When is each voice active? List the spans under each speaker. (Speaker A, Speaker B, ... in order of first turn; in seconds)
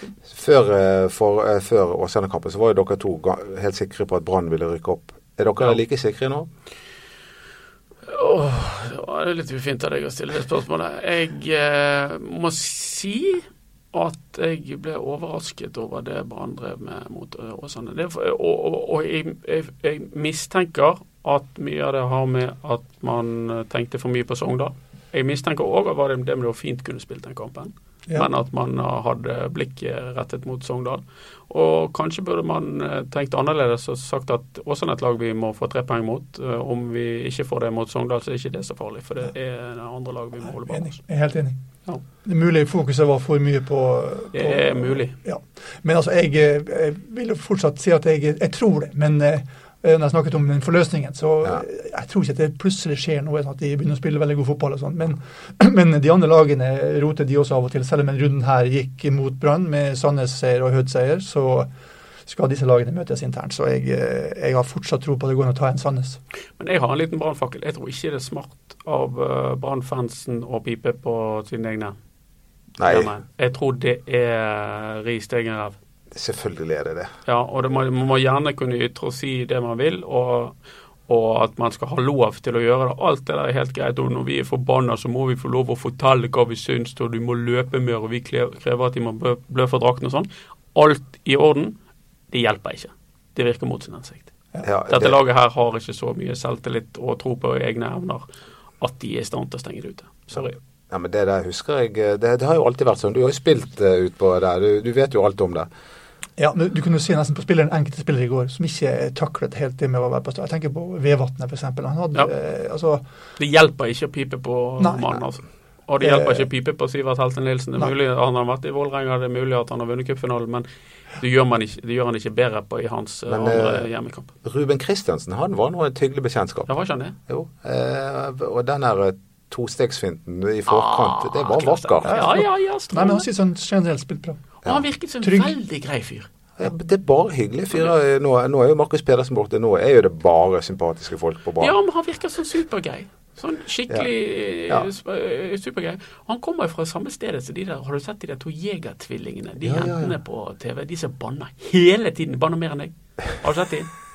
Speaker A: 0.3-6.5, 72.8-73.1, 76.1-77.1, 94.6-95.2, 100.9-105.7, 123.3-123.9, 124.4-126.7, 127.3-132.1, 136.6-141.8, 149.6-150.2
Speaker B: 8.1-41.0, 44.3-45.1, 66.6-72.0, 72.8-75.8, 77.3-80.5, 81.1-91.8, 92.3-94.3, 94.9-98.2, 98.8-100.6, 113.4-120.7, 121.2-124.3, 126.7-127.2, 130.7-133.3, 134.6-136.3, 141.6-153.9
Speaker C: 40.5-41.6, 42.2-61.7, 62.3-66.2, 106.4-113.0, 114.8-115.2, 116.0-116.5, 132.1-134.5, 135.2-135.6